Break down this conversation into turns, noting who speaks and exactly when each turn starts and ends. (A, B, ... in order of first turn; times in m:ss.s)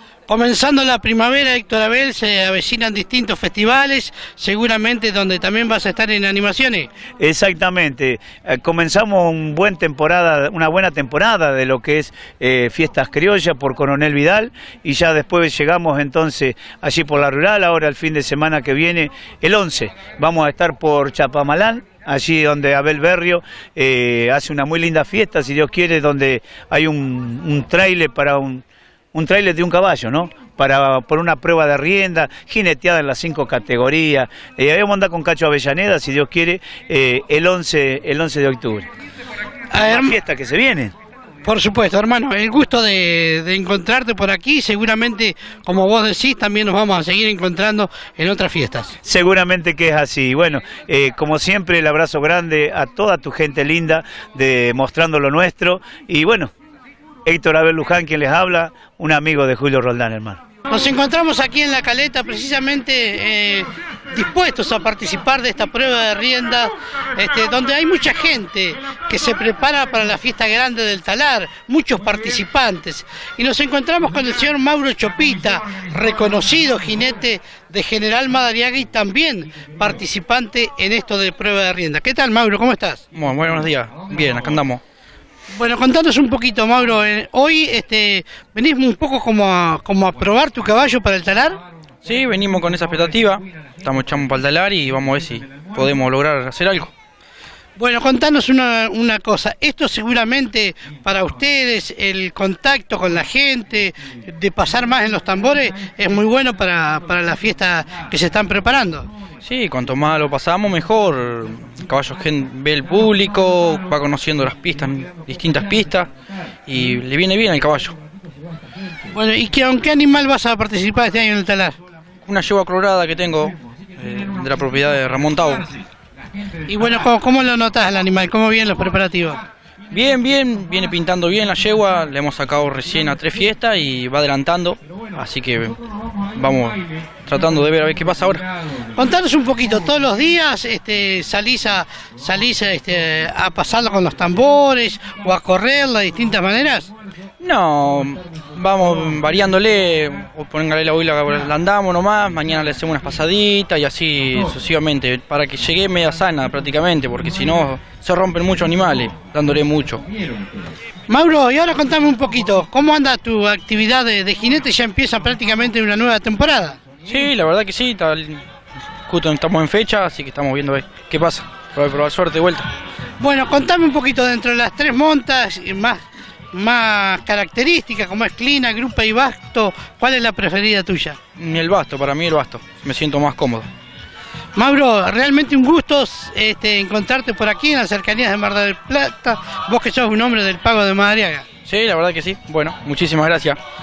0:00.3-0:06.9 A
0:07.2-0:38.9 B
0:39.7-0:40.2 A
0:39.8-0:40.9 B
0:41.4-0:49.0 A
0:49.0-0:56.5 B
0:57.2-1:00.4 B
1:00.7-1:23.0 A
1:23.1-1:24.8 C
1:25.5-1:31.6 A
1:32.0-1:36.9 C
1:37.8-1:49.1 A
1:49.4-1:56.1 C
1:56.7-1:58.0 C
1:59.1-2:01.8 A
2:02.3-2:05.8 C
2:06.7-2:09.4 A
2:09.9-2:15.8 C
2:16.3-2:18.5 C
2:18.9-2:26.9 A
2:27.4-2:40.1 C
2:41.1-2:46.8 A
2:47.1-2:48.4 C
2:49.1-2:52.7 C
2:53.2-3:01.2 A
3:01.4-3:03.7 C
3:04.6-3:11.4 A
3:11.7-3:13.6 C